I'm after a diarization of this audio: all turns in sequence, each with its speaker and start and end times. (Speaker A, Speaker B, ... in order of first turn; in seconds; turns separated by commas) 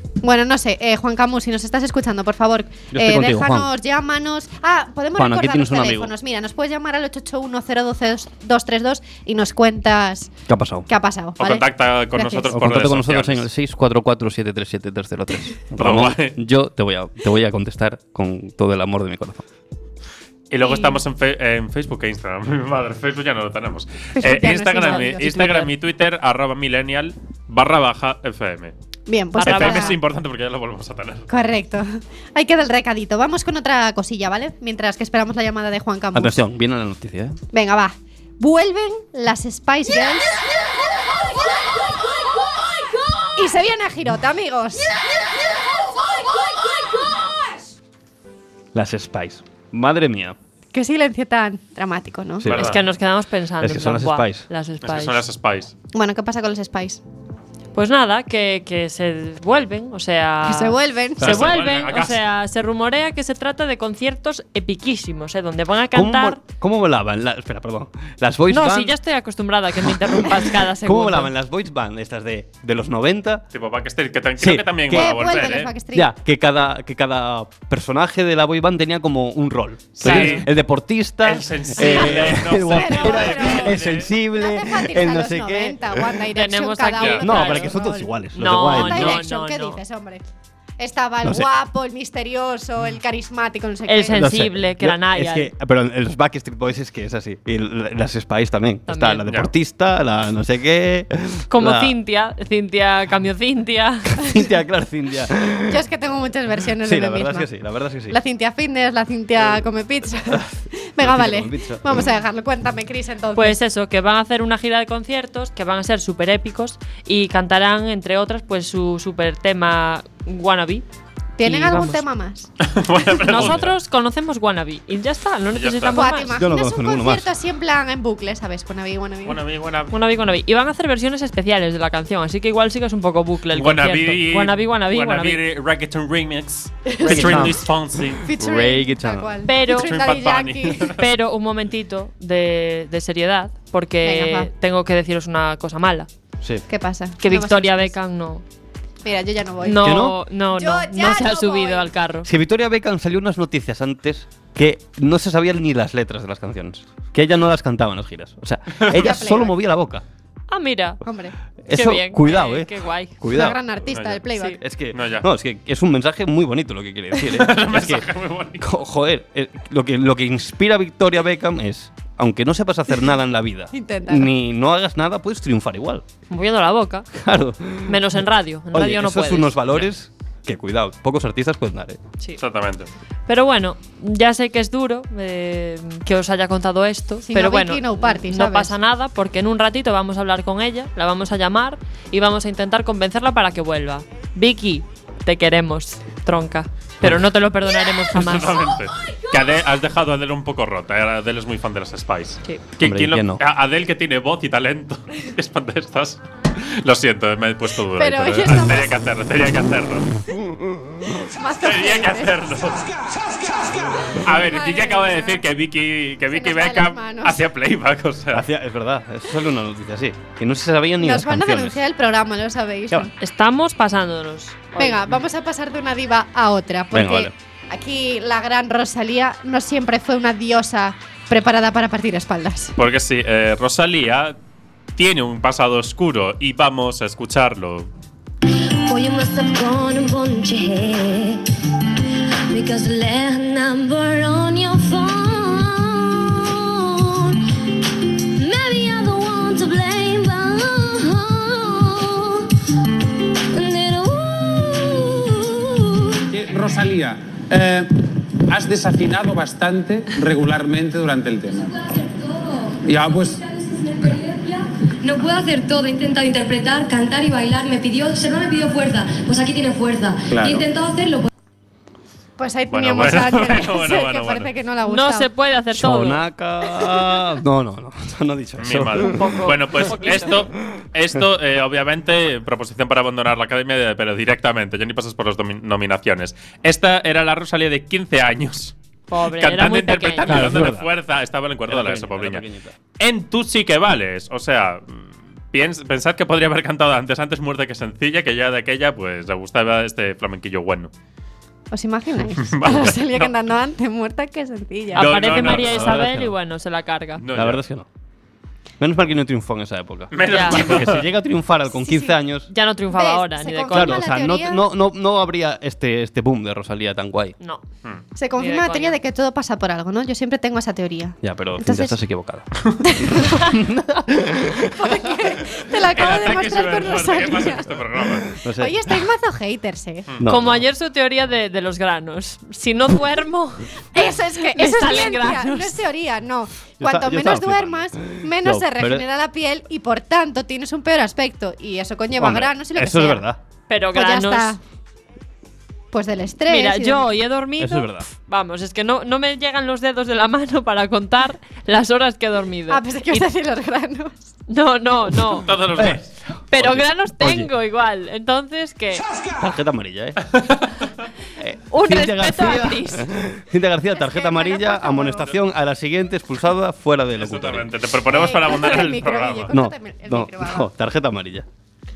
Speaker A: 0.2-10.3, Speaker B: 2.9-3.7, Speaker B: 5.2-6.1, Speaker B: 10.5-10.9, Speaker A: 10.9-12.6, Speaker C: 11.4-13.5, Speaker B: 12.5-19.4, Speaker C: 15.8-16.4, Speaker C: 20.5-28.7, Speaker A: 20.6-21.0, Speaker A: 24.2-25.7, Speaker D: 24.8-25.7, Speaker A: 29.1-30.0, Speaker D: 29.4-30.0, Speaker C: 29.4-31.3, Speaker A: 31.3-36.4, Speaker B: 36.1-37.4, Speaker A: 37.5-40.4, Speaker A: 43.4-44.9, Speaker B: 48.7-50.4, Speaker A: 50.7-52.5, Speaker B: 52.4-52.8, Speaker C: 52.4-52.8, Speaker D: 52.5-55.2, Speaker B: 53.6-54.5, Speaker C: 54.8-55.7, Speaker A: 55.9-57.0, Speaker D: 57.8-66.4, Speaker A: 60.5-61.4, Speaker B: 61.2-61.5, Speaker C: 61.2-62.2, Speaker B: 65.9-69.0, Speaker D: 68.5-71.3, Speaker B: 69.8-73.4, Speaker C: 73.5-75.7, Speaker B: 74.4-75.4, Speaker A: 74.9-76.1, Speaker B: 75.9-86.2, Speaker C: 80.0-80.5, Speaker D: 80.0-80.4, Speaker C: 81.2-84.1, Speaker A: 81.9-90.2, Speaker D: 86.3-87.8, Speaker B: 87.2-89.2, Speaker D: 88.3-89.8, Speaker A: 90.8-94.3, Speaker D: 93.9-95.5, Speaker B: 94.1-102.0, Speaker D: 98.9-99.2, Speaker C: 99.3-99.5, Speaker D: 101.5-104.2, Speaker B: 104.2-105.8, Speaker A: 105.7-107.5, Speaker B: 106.8-108.2, Speaker A: 108.1-113.6, Speaker B: 110.3-112.1, Speaker D: 113.3-120.8, Speaker A: 121.4-122.5, Speaker D: 121.4-122.0, Speaker C: 122.6-123.7, Speaker D: 123.3-126.3, Speaker C: 125.5-126.1, Speaker A: 125.9-129.4, Speaker B: 126.3-127.3, Speaker C: 129.2-129.9, Speaker D: 129.9-135.4, Speaker C: 133.5-138.3, Speaker A: 136.9-137.5, Speaker B: 137.0-137.6, Speaker A: 138.2-141.0, Speaker B: 138.4-139.5, Speaker D: 139.4-139.9, Speaker C: 139.7-141.0, Speaker D: 141.0-146.1, Speaker A: 144.0-144.5, Speaker A: 146.7-147.9, Speaker D: 147.2-148.4, Speaker A: 149.0-151.9, Speaker D: 149.6-152.3, Speaker B: 149.8-150.2, Speaker B: 152.2-160.0, Speaker C: 158.8-159.1, Speaker A: 158.9-159.6, Speaker D: 160.5-161.0, Speaker A: 161.0-161.3, Speaker B: 161.6-163.6, Speaker D: 161.7-163.2, Speaker A: 163.3-164.6, Speaker C: 163.9-164.2, Speaker B: 164.6-168.1, Speaker C: 164.9-165.3, Speaker C: 167.3-168.7, Speaker B: 168.6-176.0, Speaker A: 173.7-174.3, Speaker D: 176.3-177.1, Speaker B: 177.1-178.0, Speaker D: 177.9-179.6, Speaker B: 178.7-182.0, Speaker C: 182.4-182.9, Speaker D: 183.3-198.6, Speaker A: 187.3-188.7, Speaker C: 198.1-210.1, Speaker B: 202.8-203.4, Speaker A: 208.0-208.9, Speaker A: 211.2-212.5, Speaker C: 211.6-212.8, Speaker A: 214.1-215.4, Speaker C: 214.2-218.5, Speaker A: 216.3-217.4, Speaker B: 218.3-221.8, Speaker A: 221.0-223.1, Speaker D: 223.2-225.0, Speaker A: 224.8-232.7, Speaker B: 226.9-227.3, Speaker C: 232.8-234.4, Speaker C: 235.0-237.9, Speaker E: 238.8-241.4, Speaker E: 242.5-247.4, Speaker E: 248.2-252.5, Speaker E: 253.4-256.2, Speaker F: 256.3-257.9, Speaker F: 258.5-261.8, Speaker E: 261.6-271.3, Speaker F: 262.9-263.4, Speaker F: 270.3-270.7, Speaker A: 272.4-275.3, Speaker C: 272.7-274.5, Speaker D: 274.9-276.2, Speaker B: 275.7-279.4, Speaker A: 276.8-277.1, Speaker C: 278.6-288.8, Speaker D: 279.0-280.4, Speaker D: 289.1-290.4, Speaker C: 289.4-292.4, Speaker B: 290.2-290.9, Speaker B: 291.7-292.7, Speaker C: 293.0-300.9, Speaker A: 301.7-305.1, Speaker C: 302.4-303.3, Speaker D: 304.9-307.2, Speaker C: 305.0-305.9, Speaker B: 305.3-306.3, Speaker C: 307.2-307.6, Speaker B: 307.3-307.9, Speaker B: 308.8-312.5, Speaker C: 310.1-311.1, Speaker D: 310.3-310.6, Speaker A: 311.9-312.1, Speaker D: 312.5-314.1, Speaker A: 312.9-314.6, Speaker B: 313.7-317.4, Speaker A: 318.2-322.0, Speaker D: 318.4-319.0, Speaker B: 321.2-325.0, Speaker A: 322.8-323.6, Speaker A: 324.8-327.8, Speaker C: 325.9-328.3, Speaker B: 328.3-328.9, Speaker A: 328.5-330.1, Speaker B: 330.2-330.6, Speaker D: 330.3-335.8, Speaker A: 333.9-343.2, Speaker B: 336.8-339.1, Speaker B: 342.2-343.4, Speaker D: 343.7-344.6, Speaker A: 343.9-344.6, Speaker A: 345.9-347.0, Speaker D: 346.5-353.2, Speaker B: 347.6-348.1, Speaker A: 352.7-354.2, Speaker D: 354.5-355.5, Speaker C: 355.4-356.1, Speaker B: 355.8-357.5, Speaker D: 356.5-359.0, Speaker B: 359.4-360.4, Speaker B: 361.4-367.7, Speaker D: 361.7-363.1, Speaker A: 363.9-365.3, Speaker C: 367.2-369.6, Speaker A: 368.1-370.7, Speaker B: 369.5-371.5